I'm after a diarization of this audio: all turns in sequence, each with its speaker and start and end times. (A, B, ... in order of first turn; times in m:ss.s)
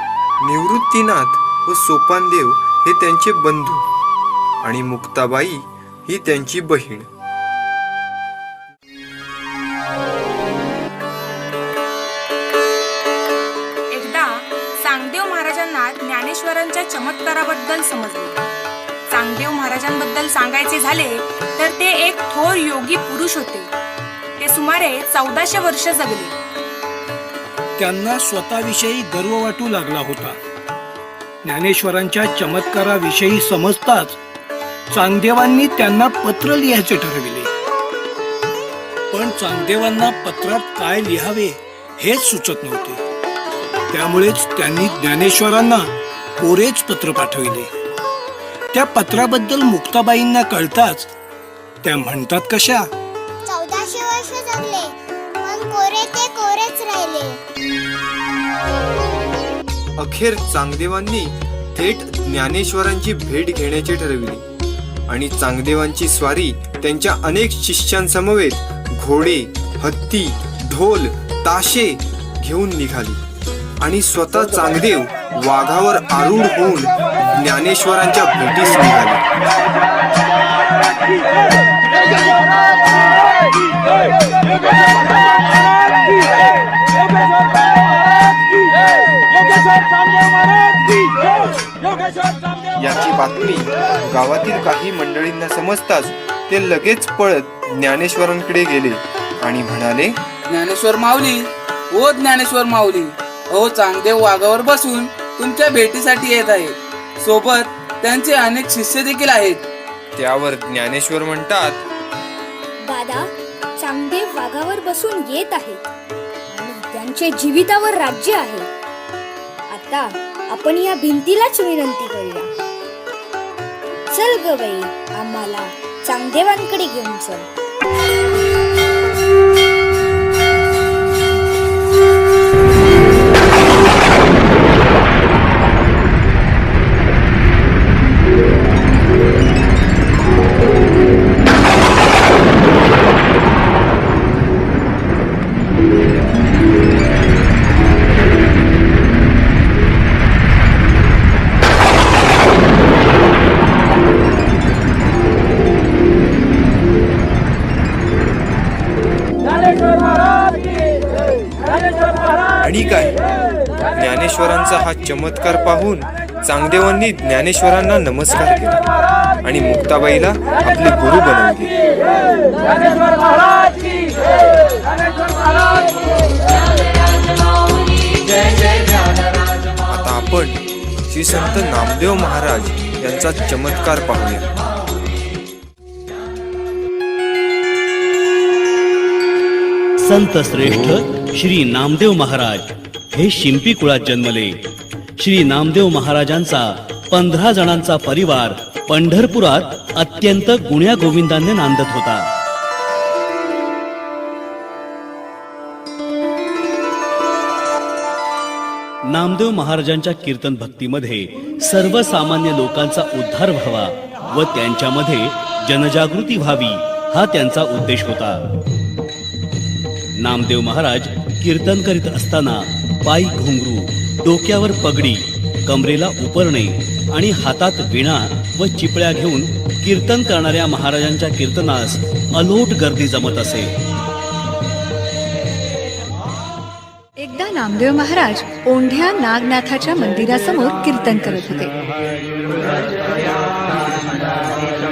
0:00.4-0:03.8 A
0:04.6-0:07.1 A
0:13.9-0:18.4 B
0:19.1-0:23.7 B
0:24.4-0:26.3 B
0:27.8-0:30.4 C
0:31.4-0:34.2 C
0:34.9-0:37.5 C
0:39.1-0:43.0 C
0:43.9-0:45.9 C
0:46.4-0:47.7 C
0:48.7-0:51.1 C
0:51.8-0:52.9 C
0:53.4-0:57.4 D
1:00.0-1:04.4 A
1:05.1-1:13.2 A
1:13.8-1:19.2 A
1:32.8-1:40.2 A
1:40.5-1:41.4 E
1:41.9-1:49.6 E
1:50.2-1:51.8 A
1:52.8-1:55.8 F
1:56.5-1:58.7 F
1:59.7-2:02.5 F
2:04.1-2:07.5 F
2:42.6-2:43.1 A
2:43.9-2:48.8 A
2:49.4-2:51.7 A
2:59.9-3:04.5 A
3:10.0-3:14.5 G
3:15.2-3:22.2 G
3:29.1-3:38.4 G
3:40.2-3:53.7 G
3:57.2-4:01.7 H